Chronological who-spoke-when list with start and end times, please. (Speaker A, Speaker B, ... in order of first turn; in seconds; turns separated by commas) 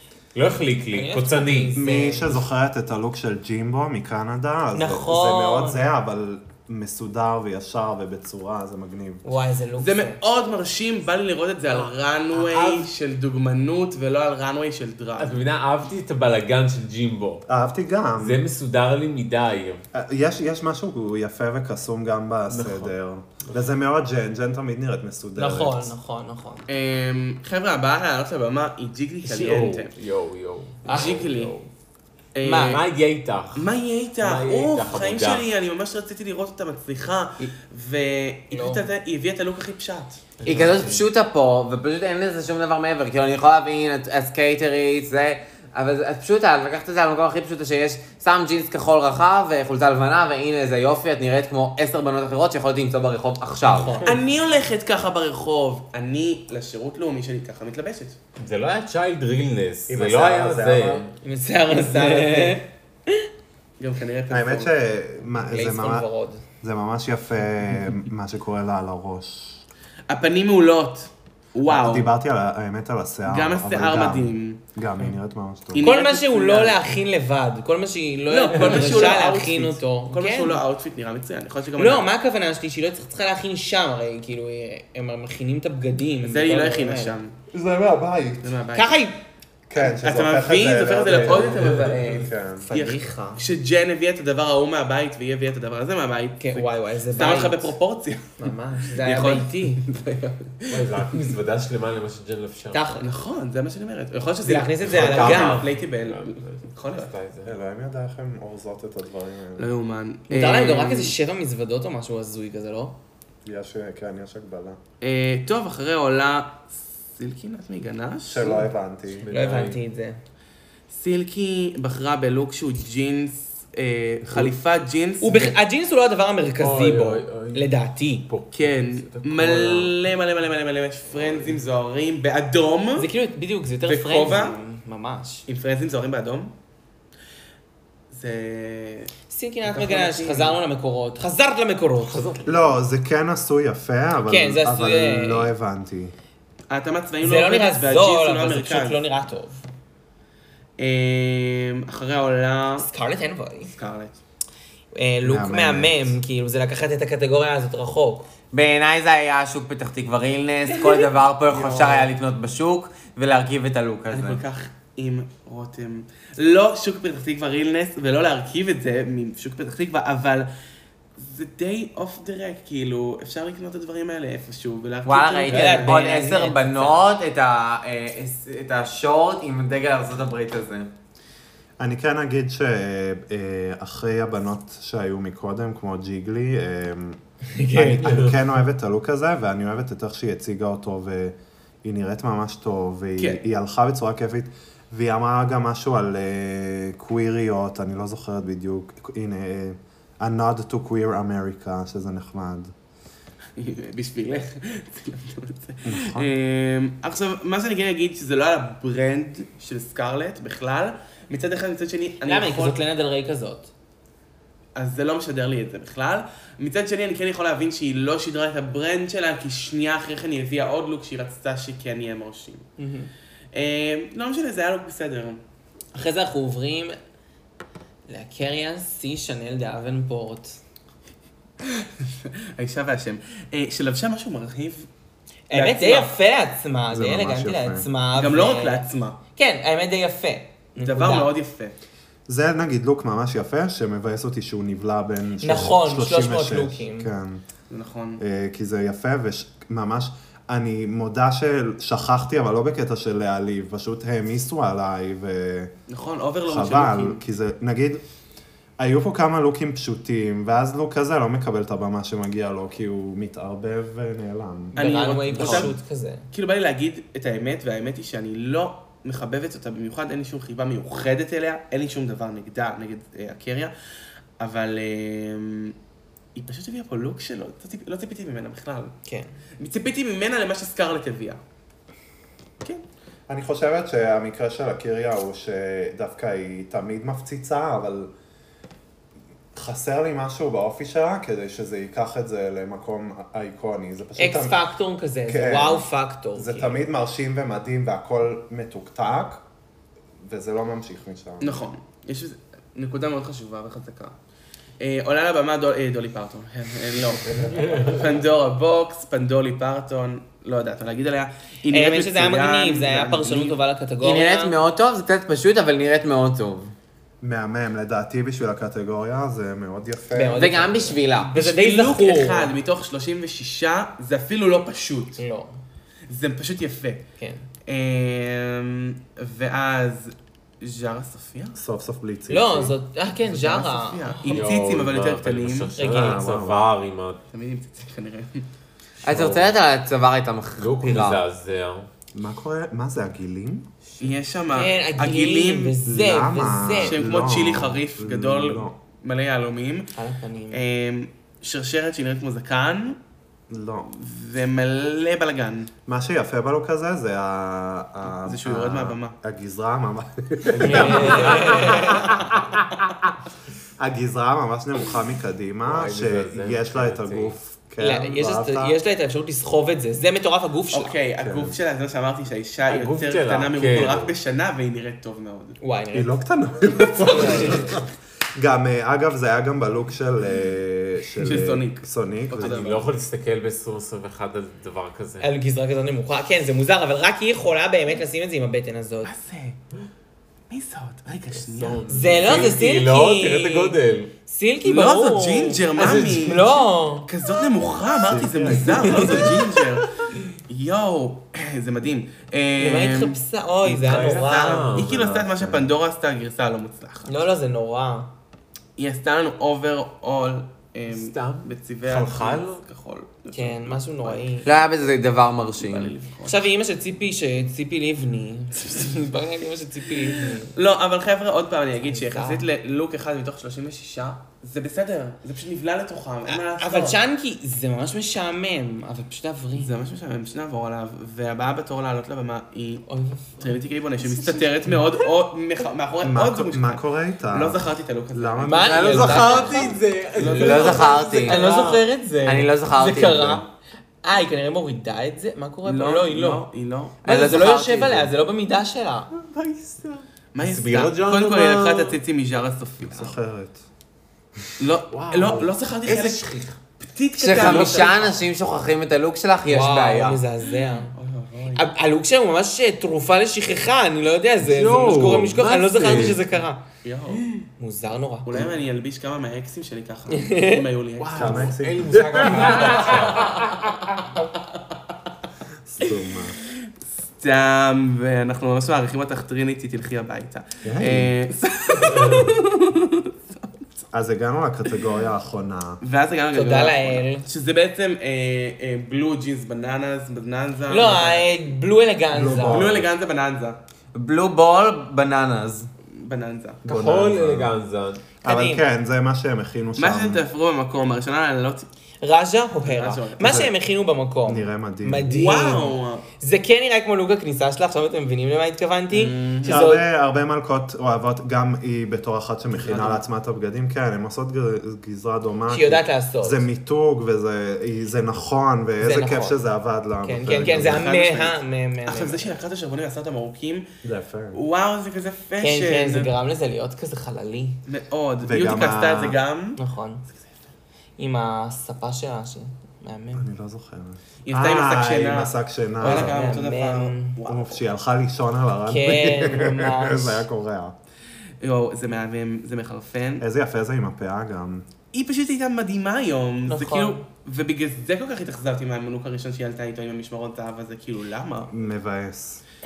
Speaker A: 0.3-1.8, Speaker B: 0.9-2.4, Speaker C: 1.7-9.2, Speaker B: 4.7-5.9, Speaker B: 9.2-10.2, Speaker D: 9.8-15.4, Speaker A: 12.3-12.9, Speaker A: 15.2-17.4, Speaker C: 17.5-18.4, Speaker A: 18.2-19.8, Speaker C: 19.9-25.9, Speaker A: 22.5-22.9, Speaker B: 25.4-26.7, Speaker D: 26.7-29.9, Speaker A: 29.2-31.7, Speaker D: 30.9-31.5, Speaker B: 30.9-31.2, Speaker D: 32.4-32.9, Speaker B: 32.4-32.8, Speaker A: 32.5-33.7, Speaker D: 33.5-40.3, Speaker A: 34.2-35.5, Speaker B: 38.5-38.9, Speaker A: 40.4-41.1, Speaker E: 40.5-54.0, Speaker B: 53.6-54.2, Speaker D: 54.0-58.2, Speaker A: 58.4-61.1, Speaker C: 59.9-61.1, Speaker B: 61.2-63.3, Speaker D: 61.8-62.6, Speaker D: 63.8-64.7, Speaker C: 64.3-66.1, Speaker B: 65.4-66.4, Speaker C: 66.6-69.6, Speaker D: 70.1-72.1, Speaker C: 71.7-75.9, Speaker D: 73.3-74.6, Speaker D: 75.7-76.8, Speaker B: 75.8-80.6, Speaker D: 78.3-82.1, Speaker B: 81.8-87.2, Speaker D: 86.2-87.3, Speaker C: 87.5-88.5, Speaker D: 88.4-89.0, Speaker B: 88.7-89.2, Speaker C: 89.7-92.7, Speaker D: 89.8-98.4, Speaker A: 91.3-92.2, Speaker B: 92.7-93.5, Speaker B: 96.4-97.7, Speaker B: 98.4-99.8, Speaker D: 99.0-101.3, Speaker A: 100.7-102.8, Speaker B: 102.7-103.0, Speaker D: 103.0-107.1, Speaker B: 104.5-105.6, Speaker A: 104.9-107.5, Speaker C: 107.5-109.7, Speaker D: 109.6-111.2, Speaker B: 110.3-113.0, Speaker C: 113.5-114.8, Speaker D: 115.0-118.7, Speaker C: 118.3-119.3, Speaker A: 119.2-119.8, Speaker B: 119.3-120.2, Speaker D: 120.9-125.5, Speaker B: 125.2-128.3, Speaker A: 126.6-130.0, Speaker D: 128.5-133.1, Speaker A: 131.1-131.6, Speaker B: 133.0-135.5, Speaker D: 133.8-134.6, Speaker D: 135.5-136.5, Speaker D: 138.1-139.1, Speaker B: 139.3-142.3, Speaker D: 139.7-140.6, Speaker C: 142.4-146.1, Speaker B: 144.3-145.5, Speaker D: 146.7-149.0, Speaker B: 147.2-149.6, Speaker D: 150.8-152.9, Speaker B: 152.8-153.7, Speaker D: 153.7-154.2, Speaker B: 154.9-158.3, Speaker C: 155.2-156.2, Speaker E: 158.5-164.4, Speaker D: 161.5-162.1, Speaker D: 164.1-170.5, Speaker D: 171.2-176.0, Speaker E: 175.1-180.9, Speaker B: 175.5-177.0, Speaker C: 181.8-187.2, Speaker B: 187.5-188.3, Speaker C: 187.7-202.7, Speaker D: 203.6-212.8, Speaker C: 205.8-206.3, Speaker B: 212.2-213.7, Speaker D: 214.8-222.7, Speaker B: 222.8-223.1, Speaker D: 223.5-225.4, Speaker B: 225.9-227.0, Speaker B: 228.1-230.6, Speaker D: 231.6-234.9, Speaker B: 235.5-238.8, Speaker D: 235.5-236.2, Speaker C: 236.9-237.9, Speaker D: 238.2-239.2, Speaker B: 239.4-241.3, Speaker D: 240.8-241.8, Speaker C: 242.3-247.4, Speaker B: 245.4-247.1, Speaker D: 247.7-248.2, Speaker C: 248.2-255.7, Speaker D: 255.9-257.2, Speaker C: 256.5-258.0, Speaker C: 258.8-264.9, Speaker B: 264.7-266.2, Speaker D: 264.8-265.7, Speaker A: 265.4-265.6, Speaker D: 266.3-273.7, Speaker D: 274.4-275.8, Speaker D: 276.4-278.9, Speaker D: 279.6-281.4, Speaker C: 283.3-288.1, Speaker C: 289.5-294.6, Speaker B: 294.2-296.8, Speaker C: 295.3-299.4, Speaker C: 300.2-301.6, Speaker D: 301.4-304.1, Speaker D: 304.8-313.6, Speaker A: 307.6-308.0, Speaker B: 311.7-314.6, Speaker E: 314.0-316.7, Speaker C: 317.2-320.7, Speaker B: 320.1-322.5, Speaker E: 320.4-321.3, Speaker D: 321.2-325.2, Speaker B: 325.2-325.6, Speaker D: 326.1-327.0, Speaker B: 327.2-327.4, Speaker D: 327.7-331.6, Speaker C: 331.6-332.8, Speaker B: 332.3-334.5, Speaker D: 333.2-335.7, Speaker A: 334.3-337.2, Speaker B: 335.8-336.3, Speaker C: 335.9-336.7, Speaker D: 337.3-338.5, Speaker A: 339.0-339.6, Speaker E: 339.0-341.2, Speaker A: 340.6-341.9, Speaker C: 342.1-343.7, Speaker D: 344.0-345.8, Speaker B: 344.5-347.0, Speaker C: 345.8-348.8, Speaker D: 346.8-349.9, Speaker B: 350.0-350.6, Speaker D: 350.5-353.0, Speaker C: 353.5-353.9, Speaker D: 353.9-355.7, Speaker C: 355.9-363.1, Speaker D: 358.1-359.2, Speaker A: 360.5-361.7, Speaker B: 360.6-362.0, Speaker D: 361.4-361.8, Speaker C: 363.8-368.8, Speaker A: 365.6-367.4, Speaker B: 367.8-371.0, Speaker D: 370.7-375.6, Speaker C: 371.2-371.6, Speaker A: 372.7-374.1, Speaker B: 375.6-376.2, Speaker C: 375.9-382.7, Speaker B: 377.0-377.7, Speaker D: 381.2-382.9, Speaker A: 382.4-385.3, Speaker B: 385.2-389.1, Speaker D: 389.0-389.6, Speaker D: 390.5-391.8, Speaker A: 391.3-394.1, Speaker B: 391.9-397.1, Speaker D: 394.6-399.9, Speaker A: 395.8-396.3, Speaker C: 398.0-399.4, Speaker D: 400.5-403.2, Speaker B: 402.6-404.7, Speaker A: 403.7-405.1, Speaker D: 403.8-407.2, Speaker C: 404.7-405.7, Speaker B: 407.1-408.1, Speaker D: 408.8-414.4, Speaker A: 410.9-412.6, Speaker B: 413.3-414.5, Speaker E: 414.4-415.9, Speaker D: 415.6-416.4, Speaker B: 416.3-420.5, Speaker D: 420.5-427.0, Speaker B: 421.8-422.5, Speaker B: 426.3-429.7, Speaker D: 429.6-439.2, Speaker B: 432.9-433.6, Speaker C: 436.0-439.8, Speaker B: 438.4-439.7, Speaker A: 438.7-441.8, Speaker E: 438.7-439.7, Speaker D: 440.2-441.1, Speaker E: 440.2-441.5, Speaker B: 441.1-443.5, Speaker E: 442.2-443.4, Speaker B: 444.0-446.4, Speaker D: 445.6-447.0, Speaker E: 447.0-448.1, Speaker B: 447.1-449.1, Speaker A: 449.1-452.0, Speaker D: 450.4-453.2, Speaker C: 452.9-453.6, Speaker D: 454.6-456.2, Speaker A: 454.9-456.6, Speaker D: 456.8-458.2, Speaker E: 457.2-460.2, Speaker A: 457.4-457.9, Speaker B: 459.5-460.9, Speaker D: 460.9-461.7, Speaker B: 461.6-466.6, Speaker A: 464.4-466.3, Speaker D: 466.8-467.4, Speaker B: 467.6-468.3, Speaker D: 468.3-471.5, Speaker B: 470.1-470.6, Speaker A: 471.0-473.3, Speaker C: 471.1-473.1, Speaker D: 472.4-473.3, Speaker C: 475.6-476.4, Speaker D: 477.2-483.5, Speaker C: 480.6-481.2, Speaker A: 481.9-482.4, Speaker C: 483.9-485.8, Speaker D: 485.8-491.3, Speaker B: 486.3-487.2, Speaker B: 490.7-492.6, Speaker C: 492.1-492.9, Speaker D: 492.4-493.6, Speaker E: 493.9-495.7, Speaker D: 495.9-496.6, Speaker C: 496.7-497.6, Speaker A: 496.7-498.1, Speaker B: 498.2-498.6, Speaker C: 498.2-500.2, Speaker D: 499.8-501.7, Speaker B: 502.0-509.8, Speaker D: 502.6-503.5, Speaker C: 503.2-503.5, Speaker C: 504.2-505.2, Speaker D: 505.1-506.1, Speaker D: 508.9-509.6, Speaker C: 509.4-520.9, Speaker D: 512.5-513.0, Speaker B: 515.5-516.5, Speaker B: 518.8-519.4, Speaker B: 520.0-522.3, Speaker D: 520.5-523.7, Speaker C: 523.8-524.4, Speaker D: 524.3-526.1, Speaker B: 525.4-527.6, Speaker D: 527.7-529.6, Speaker C: 528.2-529.2, Speaker B: 529.6-530.0, Speaker B: 531.0-533.2, Speaker C: 533.2-536.2, Speaker D: 534.3-537.6, Speaker B: 535.8-537.2, Speaker C: 537.3-540.8, Speaker B: 538.7-540.2, Speaker D: 541.4-543.2, Speaker C: 543.2-544.7, Speaker D: 544.9-551.5, Speaker B: 546.5-547.0, Speaker C: 551.5-552.4